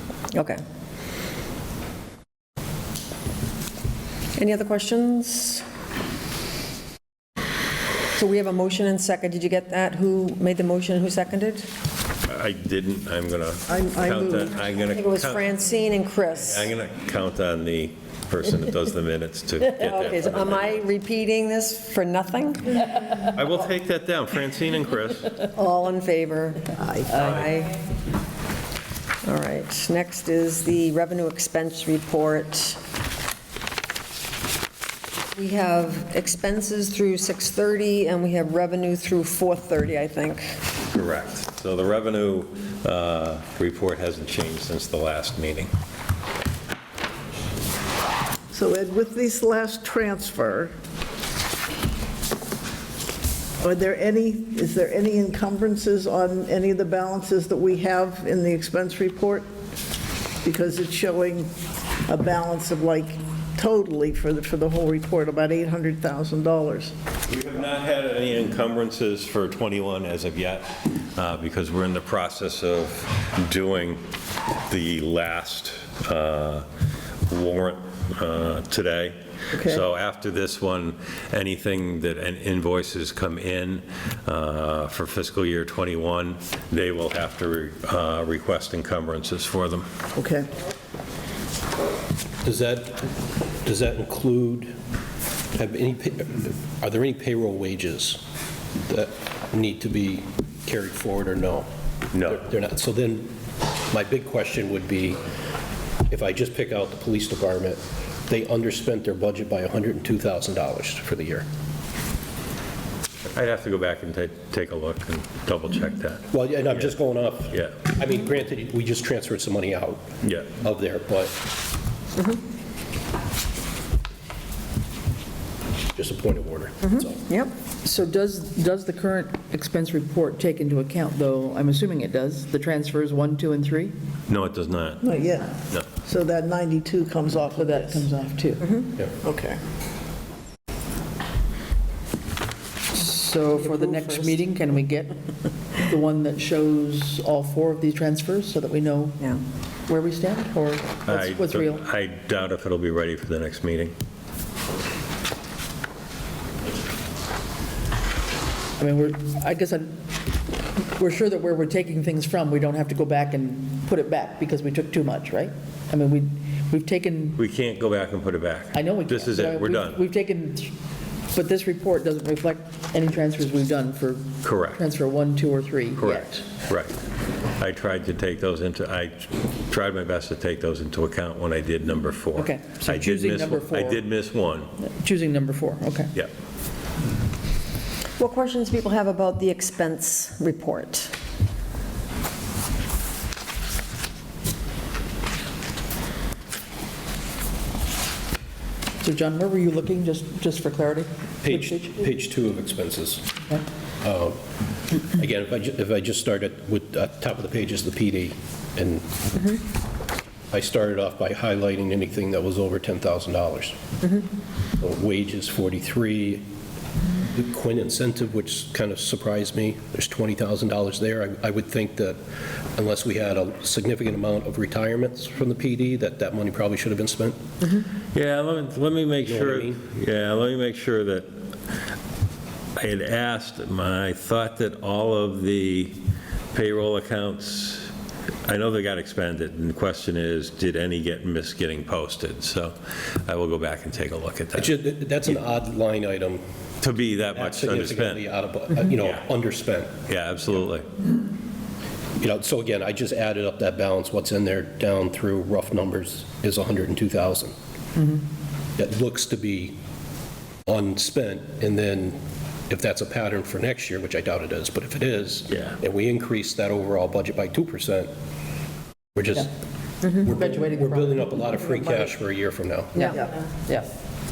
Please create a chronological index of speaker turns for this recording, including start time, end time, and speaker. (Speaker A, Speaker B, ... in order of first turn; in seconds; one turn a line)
Speaker A: 0.3-0.6
Speaker A: 4.4-5.6
Speaker A: 8.2-11.7
Speaker B: 12.3-15.4
Speaker C: 13.7-14.5
Speaker A: 14.9-16.7
Speaker B: 16.5-20.8
Speaker A: 19.8-22.9
Speaker B: 23.3-25.4
Speaker A: 25.5-27.8
Speaker C: 26.8-27.1
Speaker A: 29.2-32.8
Speaker A: 35.4-40.6
Speaker B: 40.9-45.7
Speaker C: 48.5-50.7
Speaker C: 53.6-59.5
Speaker C: 60.4-61.5
Speaker C: 62.1-66.9
Speaker B: 67.3-74.0
Speaker B: 74.7-76.7
Speaker B: 77.3-89.9
Speaker C: 79.5-79.8
Speaker C: 90.2-90.5
Speaker D: 92.4-93.1
Speaker D: 93.6-94.8
Speaker D: 95.5-98.2
Speaker D: 98.9-101.7
Speaker B: 102.1-102.5
Speaker D: 102.2-103.3
Speaker D: 103.9-105.2
Speaker D: 106.1-111.5
Speaker B: 113.3-116.3
Speaker D: 116.3-120.1
Speaker B: 120.2-120.5
Speaker D: 120.6-121.3
Speaker D: 126.0-127.2
Speaker A: 126.8-127.5
Speaker E: 127.8-133.9
Speaker B: 134.3-135.1
Speaker C: 135.0-138.1
Speaker E: 137.5-138.8
Speaker C: 139.1-139.6
Speaker E: 142.9-145.2
Speaker C: 143.6-144.4
Speaker E: 145.7-151.8
Speaker B: 151.1-153.9
Speaker E: 158.8-160.0
Speaker E: 161.0-167.4
Speaker B: 167.4-170.0
Speaker E: 168.7-170.7
Speaker E: 171.3-176.5
Speaker B: 174.4-174.8
Speaker B: 176.0-176.9
Speaker B: 177.6-184.7
Speaker E: 182.3-184.1
Speaker E: 184.8-186.1
Speaker A: 188.2-191.1
Speaker E: 199.0-202.0
Speaker D: 201.4-203.4
Speaker D: 204.0-204.4
Speaker D: 205.1-209.6
Speaker D: 210.5-213.8
Speaker D: 214.8-216.4
Speaker D: 217.3-222.2
Speaker D: 222.8-227.4
Speaker B: 228.1-231.3
Speaker D: 229.2-229.8
Speaker B: 232.8-236.0
Speaker B: 236.5-237.9
Speaker B: 238.5-244.7
Speaker D: 244.6-246.4
Speaker B: 246.8-248.3
Speaker D: 247.2-250.0
Speaker B: 250.1-250.9
Speaker D: 252.2-257.6
Speaker D: 258.8-259.8
Speaker D: 260.7-262.2
Speaker D: 262.7-268.1
Speaker D: 269.1-269.5
Speaker D: 270.0-273.1
Speaker E: 270.3-271.6
Speaker E: 272.9-273.9